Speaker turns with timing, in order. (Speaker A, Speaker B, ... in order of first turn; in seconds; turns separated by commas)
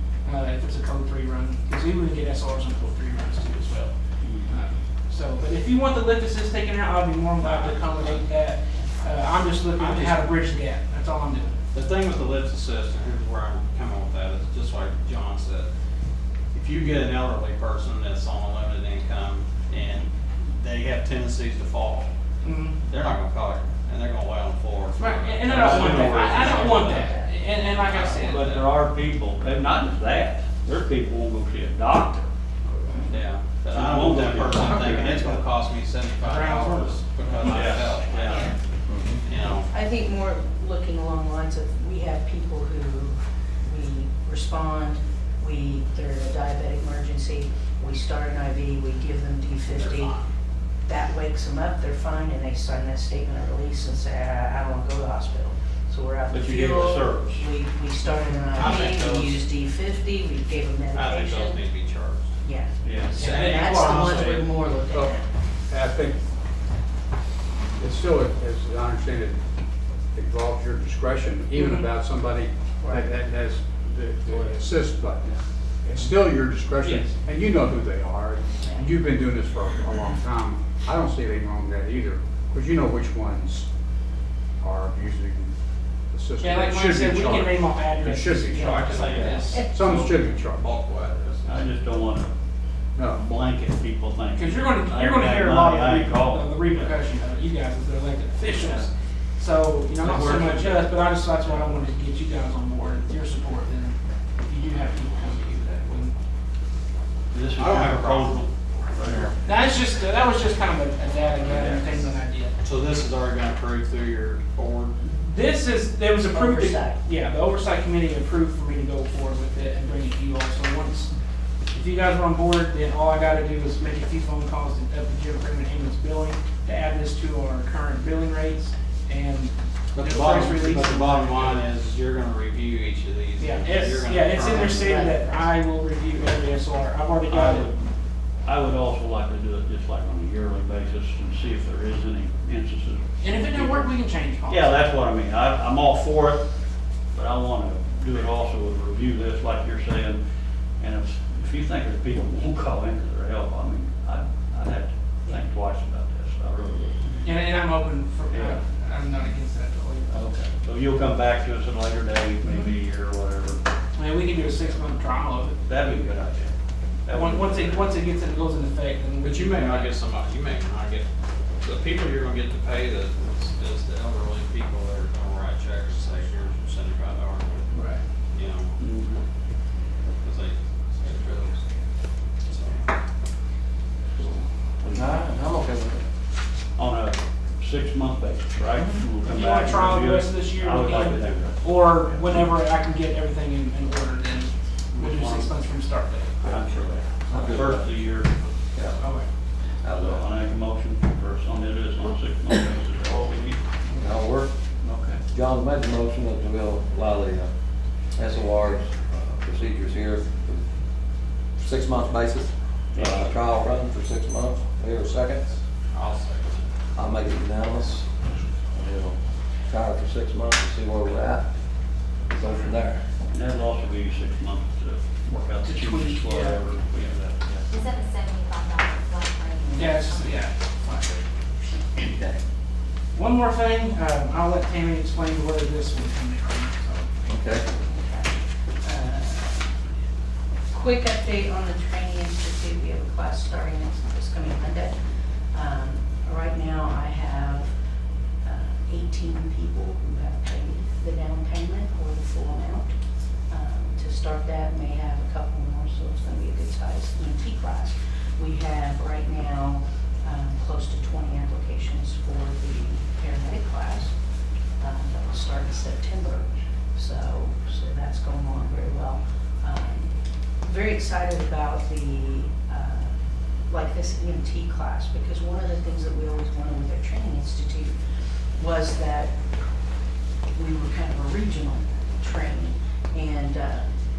Speaker A: 0.2-3.9, Speaker B: 4.2-4.5, Speaker A: 4.5-11.6, Speaker C: 7.4-8.3, Speaker C: 9.8-10.3, Speaker C: 11.7-15.7, Speaker C: 16.5-22.1, Speaker A: 22.4-22.8, Speaker C: 22.8-26.9, Speaker A: 25.0-28.4, Speaker B: 25.4-27.2, Speaker D: 25.8-27.3, Speaker C: 27.8-28.7, Speaker B: 28.1-32.3, Speaker A: 32.9-33.1, Speaker C: 33.1-38.6, Speaker B: 33.7-35.4, Speaker A: 36.2-37.8, Speaker B: 37.5-38.5, Speaker D: 38.3-38.5, Speaker E: 38.9-39.2, Speaker C: 39.2-39.7, Speaker D: 39.7-50.2, Speaker C: 49.7-50.3, Speaker D: 50.9-61.6, Speaker B: 56.3-57.5, Speaker C: 58.5-59.4, Speaker B: 58.6-59.3, Speaker C: 60.9-62.4, Speaker D: 62.4-65.3, Speaker B: 62.8-63.3, Speaker A: 63.1-64.3, Speaker C: 63.2-64.4, Speaker F: 64.9-66.2, Speaker F: 67.8-69.4, Speaker F: 70.1-83.7, Speaker A: 71.5-71.9, Speaker A: 76.8-77.1, Speaker D: 78.6-78.9, Speaker F: 84.6-85.5, Speaker F: 86.1-90.6, Speaker A: 86.4-89.7, Speaker C: 88.7-89.4, Speaker D: 89.5-90.2, Speaker C: 90.5-91.7, Speaker B: 91.5-92.3, Speaker F: 93.0-93.2, Speaker B: 93.1-97.0, Speaker A: 94.3-106.2, Speaker B: 98.5-98.9, Speaker B: 100.0-100.9, Speaker B: 107.3-109.3, Speaker C: 107.6-108.5, Speaker A: 109.4-112.5, Speaker B: 111.4-112.1, Speaker C: 112.6-115.1, Speaker A: 115.2-121.1, Speaker D: 116.2-117.0, Speaker A: 121.7-131.7, Speaker C: 129.9-135.0, Speaker A: 133.4-137.7, Speaker D: 134.6-135.5, Speaker B: 137.3-137.9, Speaker B: 138.4-143.9, Speaker A: 143.2-144.7, Speaker B: 144.5-146.4, Speaker B: 147.1-150.2, Speaker B: 150.8-157.2, Speaker A: 157.2-160.2, Speaker B: 158.3-158.6, Speaker B: 160.1-163.6, Speaker A: 163.9-166.1, Speaker B: 165.7-166.5, Speaker B: 167.1-168.0, Speaker A: 167.1-169.9, Speaker C: 169.2-171.1, Speaker C: 171.6-178.8, Speaker A: 177.7-178.0, Speaker B: 178.8-179.2, Speaker C: 180.2-181.8, Speaker C: 182.4-182.9, Speaker E: 184.8-186.1, Speaker B: 186.8-191.7, Speaker E: 188.8-189.0, Speaker A: 189.2-196.4, Speaker B: 194.9-195.5, Speaker B: 196.4-198.3, Speaker E: 197.3-198.0, Speaker E: 198.7-199.0, Speaker A: 199.0-199.3, Speaker E: 199.8-200.3, Speaker B: 199.8-203.6, Speaker E: 204.0-204.5, Speaker B: 204.8-205.2, Speaker E: 205.3-207.5, Speaker E: 208.2-210.7, Speaker E: 211.6-215.6, Speaker B: 212.9-213.3, Speaker C: 215.9-216.7, Speaker E: 216.9-218.1, Speaker E: 218.6-221.6, Speaker E: 222.2-223.1, Speaker A: 222.5-222.8, Speaker B: 223.3-227.6, Speaker A: 225.6-226.8, Speaker G: 227.7-230.5, Speaker A: 229.8-231.2, Speaker E: 231.9-232.4, Speaker A: 233.1-237.4, Speaker E: 237.3-237.7, Speaker D: 237.6-239.7, Speaker D: 240.7-245.0, Speaker D: 245.5-247.7, Speaker D: 248.4-252.9, Speaker D: 253.5-264.1, Speaker D: 264.8-273.1, Speaker D: 273.7-277.9, Speaker D: 278.6-279.4, Speaker D: 280.5-283.9